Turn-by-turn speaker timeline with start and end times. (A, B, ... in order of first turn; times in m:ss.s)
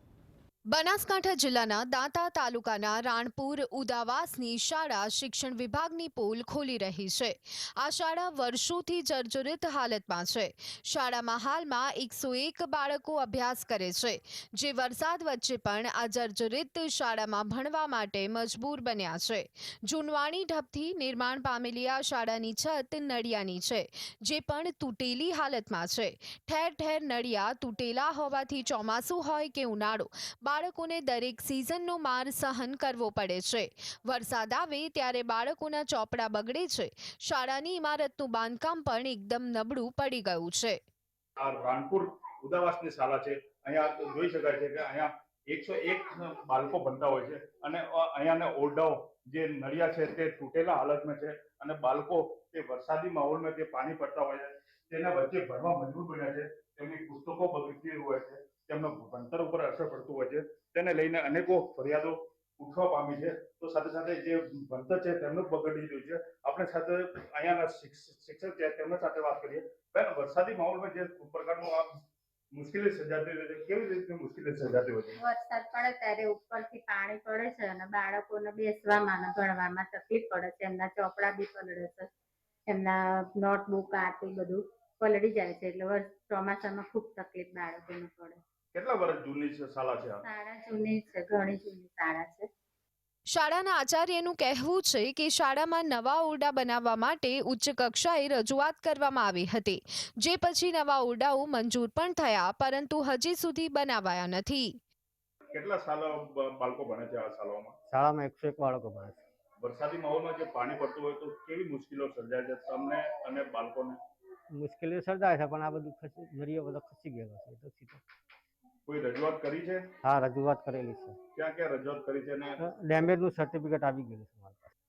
0:00.7-0:40.8 A
0:41.4-1:11.9 B
1:12.5-1:15.2 B
1:15.2-1:22.1 C
1:22.7-1:28.4 C
1:28.7-1:30.2 B
1:30.2-1:32.5 C
1:33.3-1:44.8 A
1:45.5-1:47.8 B
1:47.9-1:49.2 D
1:49.6-1:54.0 B
1:54.5-1:58.0 D
1:58.9-1:59.9 B
2:00.0-2:01.2 D
2:01.4-2:02.6 B
2:02.6-2:04.7 D